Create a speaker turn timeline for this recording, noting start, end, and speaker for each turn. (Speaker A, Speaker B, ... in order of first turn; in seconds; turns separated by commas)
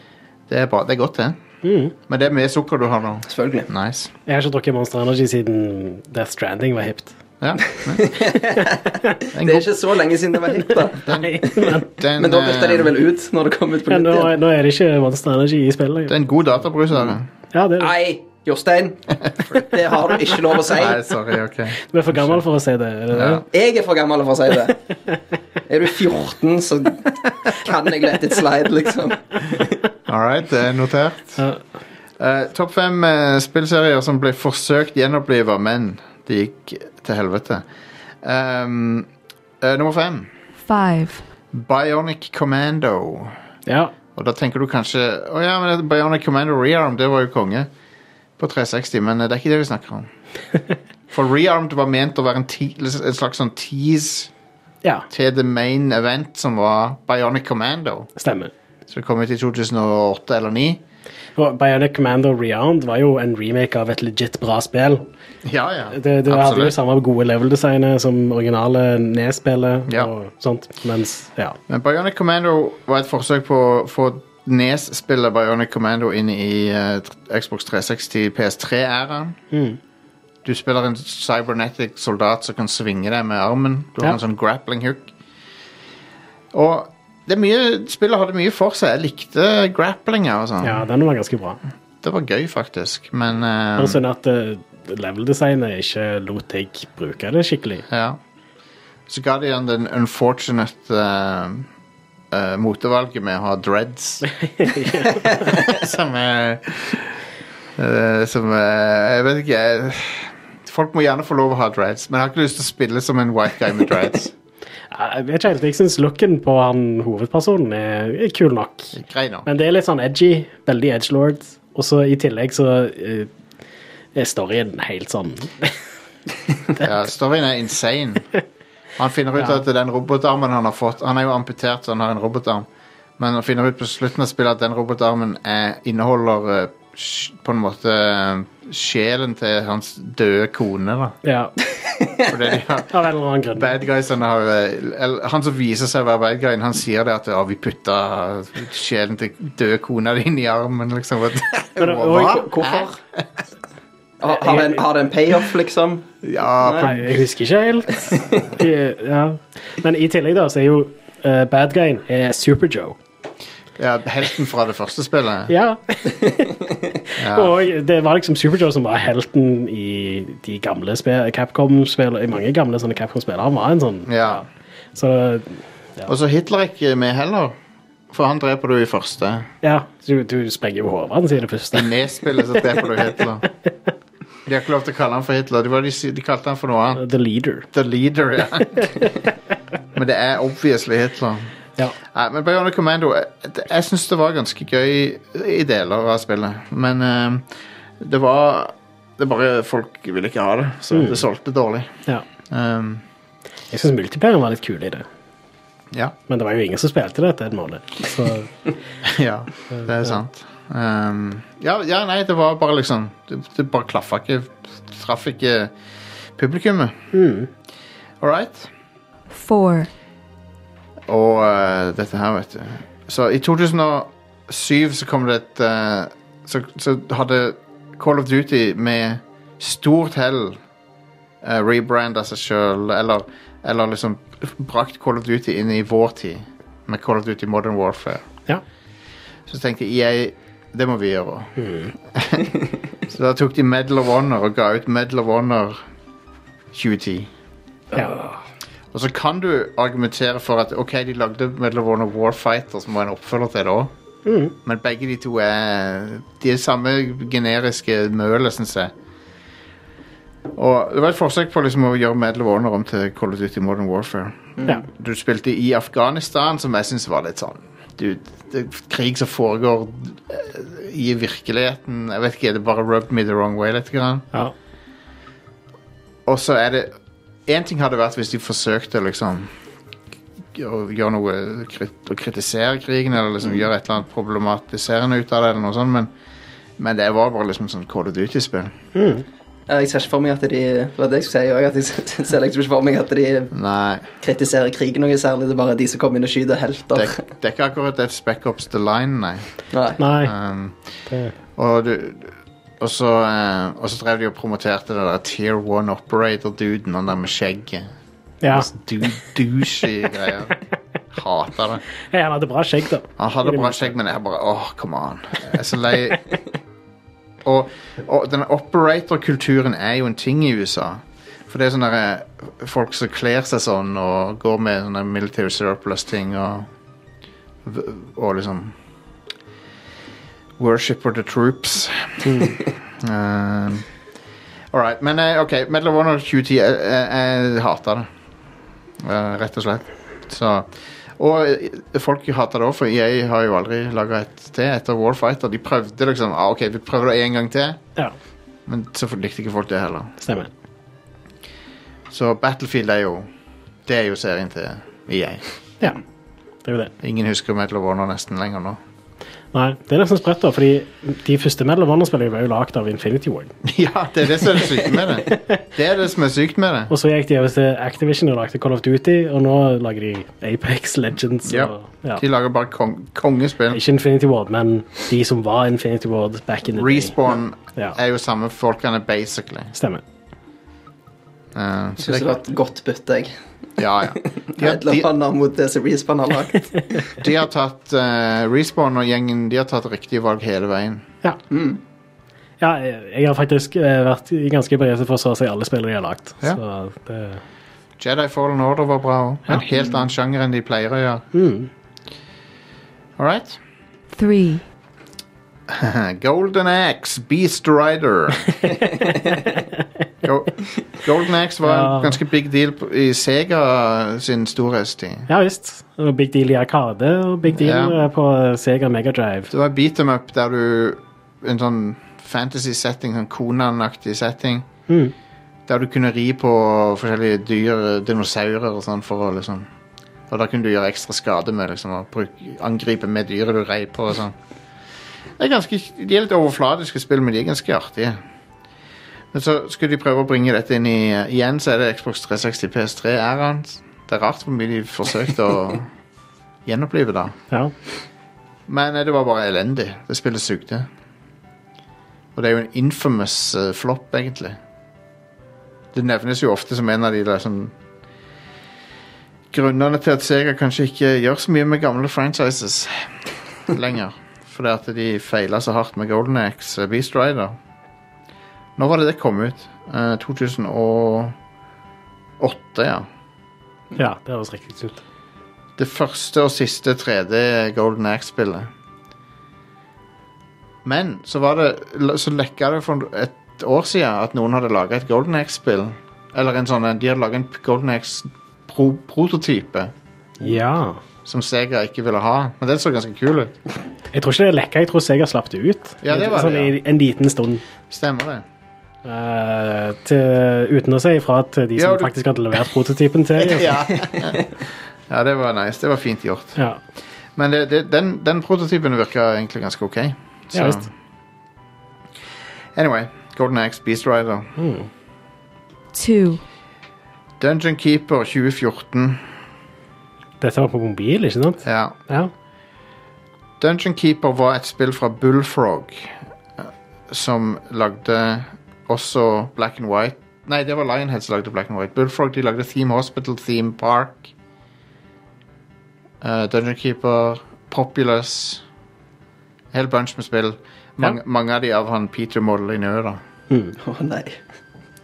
Speaker A: 0.5-1.4, Speaker B: 1.6-1.9, Speaker A: 2.0-4.1, Speaker C: 3.3-3.7, Speaker B: 4.3-7.2, Speaker A: 7.4-8.1, Speaker C: 8.0-14.3, Speaker A: 9.3-9.7, Speaker A: 10.9-12.9, Speaker B: 11.2-11.9, Speaker B: 13.9-16.1, Speaker A: 16.1-17.3, Speaker B: 17.5-17.9, Speaker C: 17.8-21.0, Speaker A: 20.6-22.4, Speaker B: 21.9-23.4, Speaker A: 23.1-23.4, Speaker C: 23.5-24.8, Speaker C: 25.7-29.7, Speaker A: 30.1-31.4, Speaker A: 32.2-37.6, Speaker A: 38.2-39.1, Speaker A: 39.6-40.3, Speaker D: 40.7-41.2, Speaker A: 41.5-43.4, Speaker B: 43.7-43.9, Speaker A: 44.1-47.7, Speaker A: 48.4-50.1, Speaker A: 51.1-54.3, Speaker A: 55.1-58.1, Speaker B: 58.2-58.5, Speaker A: 58.9-60.8, Speaker B: 61.4-65.1, Speaker A: 65.4-66.7, Speaker B: 65.9-71.6, Speaker A: 69.9-70.1, Speaker A: 71.7-79.4, Speaker B: 79.5-79.8, Speaker A: 80.4-85.1, Speaker A: 86.5-90.8, Speaker B: 90.6-91.6, Speaker A: 92.0-94.0, Speaker B: 93.8-97.8, Speaker A: 97.9-98.2, Speaker A: 99.1-101.7, Speaker A: 102.3-104.3, Speaker B: 104.3-105.6, Speaker A: 105.3-107.2, Speaker A: 107.8-114.3, Speaker B: 114.9-118.9, Speaker A: 118.9-119.5, Speaker B: 119.5-123.3, Speaker B: 124.1-125.8, Speaker A: 126.8-128.3, Speaker A: 129.0-132.7, Speaker B: 129.4-129.6, Speaker A: 133.2-141.2, Speaker B: 141.2-141.5, Speaker C: 142.0-142.2, Speaker A: 142.3-143.0, Speaker B: 142.9-143.7, Speaker A: 143.5-153.2, Speaker B: 151.8-152.9, Speaker C: 154.2-156.1, Speaker B: 154.4-154.8, Speaker A: 156.2-157.0, Speaker C: 156.6-156.9, Speaker B: 156.8-163.0, Speaker C: 158.1-158.5, Speaker A: 163.8-165.5, Speaker B: 165.5-166.6, Speaker A: 167.2-167.5, Speaker B: 167.2-176.1, Speaker A: 174.1-174.4, Speaker A: 176.1-177.6, Speaker A: 178.1-179.5, Speaker B: 179.6-181.9, Speaker A: 181.7-183.4, Speaker B: 182.5-182.8, Speaker A: 184.4-187.0, Speaker B: 187.0-187.7, Speaker A: 187.7-189.1, Speaker B: 188.6-189.1, Speaker A: 189.9-191.5, Speaker A: 192.1-197.5, Speaker A: 198.0-201.9, Speaker B: 200.9-201.2, Speaker A: 202.5-203.0, Speaker B: 203.7-205.0, Speaker B: 206.3-208.5, Speaker A: 209.0-215.7, Speaker B: 209.7-210.1, Speaker A: 216.3-216.9, Speaker B: 217.1-217.5, Speaker A: 218.2-218.7, Speaker D: 219.3-219.9, Speaker A: 221.1-230.6, Speaker A: 231.4-238.2, Speaker A: 239.5-242.5, Speaker B: 241.6-241.9, Speaker A: 243.0-245.8, Speaker A: 246.7-247.3, Speaker B: 247.9-248.4, Speaker A: 248.9-253.9, Speaker B: 254.2-254.5, Speaker A: 254.6-258.9, Speaker A: 260.5-274.3, Speaker A: 276.2-276.9, Speaker A: 277.5-279.5, Speaker A: 280.5-286.1, Speaker A: 286.8-288.7, Speaker B: 288.9-289.2, Speaker C: 289.7-293.5, Speaker A: 293.5-294.0, Speaker C: 294.2-297.2, Speaker A: 296.9-299.5, Speaker C: 299.7-300.0, Speaker B: 300.0-300.3, Speaker A: 300.2-300.8, Speaker B: 301.1-301.3, Speaker A: 301.6-307.9, Speaker B: 308.4-308.7, Speaker A: 308.5-310.5, Speaker A: 311.1-311.8, Speaker B: 312.1-313.9, Speaker A: 313.2-316.3, Speaker A: 317.4-326.7, Speaker A: 327.6-328.7, Speaker A: 330.6-332.3, Speaker B: 332.2-332.6, Speaker A: 333.0-333.9, Speaker A: 334.7-338.1, Speaker A: 339.0-347.8, Speaker A: 348.7-350.1, Speaker B: 350.2-350.5, Speaker A: 352.1-353.3, Speaker A: 353.9-355.4, Speaker B: 356.6-356.9, Speaker A: 357.0-358.8, Speaker B: 359.5-363.5, Speaker A: 363.6-366.9, Speaker B: 365.3-365.6, Speaker B: 366.9-372.2, Speaker A: 371.4-373.8, Speaker B: 373.7-377.1, Speaker A: 376.8-379.7, Speaker B: 379.7-380.0, Speaker A: 381.5-382.4, Speaker C: 382.0-383.3, Speaker A: 383.8-385.1, Speaker C: 384.5-387.0, Speaker A: 387.2-391.1, Speaker C: 391.5-391.8, Speaker B: 392.6-397.4, Speaker A: 398.0-401.2, Speaker B: 401.3-401.7, Speaker A: 403.2-403.6, Speaker D: 404.1-404.6, Speaker A: 405.7-408.5, Speaker B: 408.8-409.6, Speaker A: 410.2-415.3, Speaker B: 411.6-412.2, Speaker B: 415.3-419.5, Speaker A: 417.5-418.0, Speaker A: 419.5-424.7, Speaker B: 424.9-425.1, Speaker A: 425.7-429.7, Speaker A: 430.3-434.3, Speaker A: 435.4-438.2, Speaker A: 439.3-445.9, Speaker A: 446.6-447.4, Speaker A: 448.7-450.9, Speaker A: 452.3-454.6, Speaker A: 455.9-457.7, Speaker A: 459.5-463.1, Speaker A: 463.7-467.6, Speaker A: 468.8-471.3, Speaker A: 472.4-473.1, Speaker B: 473.9-475.0, Speaker A: 475.8-478.7, Speaker A: 480.8-489.9, Speaker B: 490.4-491.0, Speaker A: 491.2-493.5, Speaker B: 494.1-497.6, Speaker A: 496.0-496.7, Speaker A: 497.9-498.4, Speaker B: 499.0-503.9, Speaker A: 501.8-502.1, Speaker A: 503.4-506.6, Speaker A: 507.4-510.9, Speaker B: 510.5-510.9, Speaker A: 512.7-514.5, Speaker B: 514.6-514.9, Speaker D: 515.9-516.4, Speaker A: 517.4-519.3, Speaker B: 520.4-522.3, Speaker A: 521.6-522.0, Speaker A: 523.6-534.3, Speaker A: 536.2-538.6, Speaker A: 539.7-543.2, Speaker C: 543.8-544.4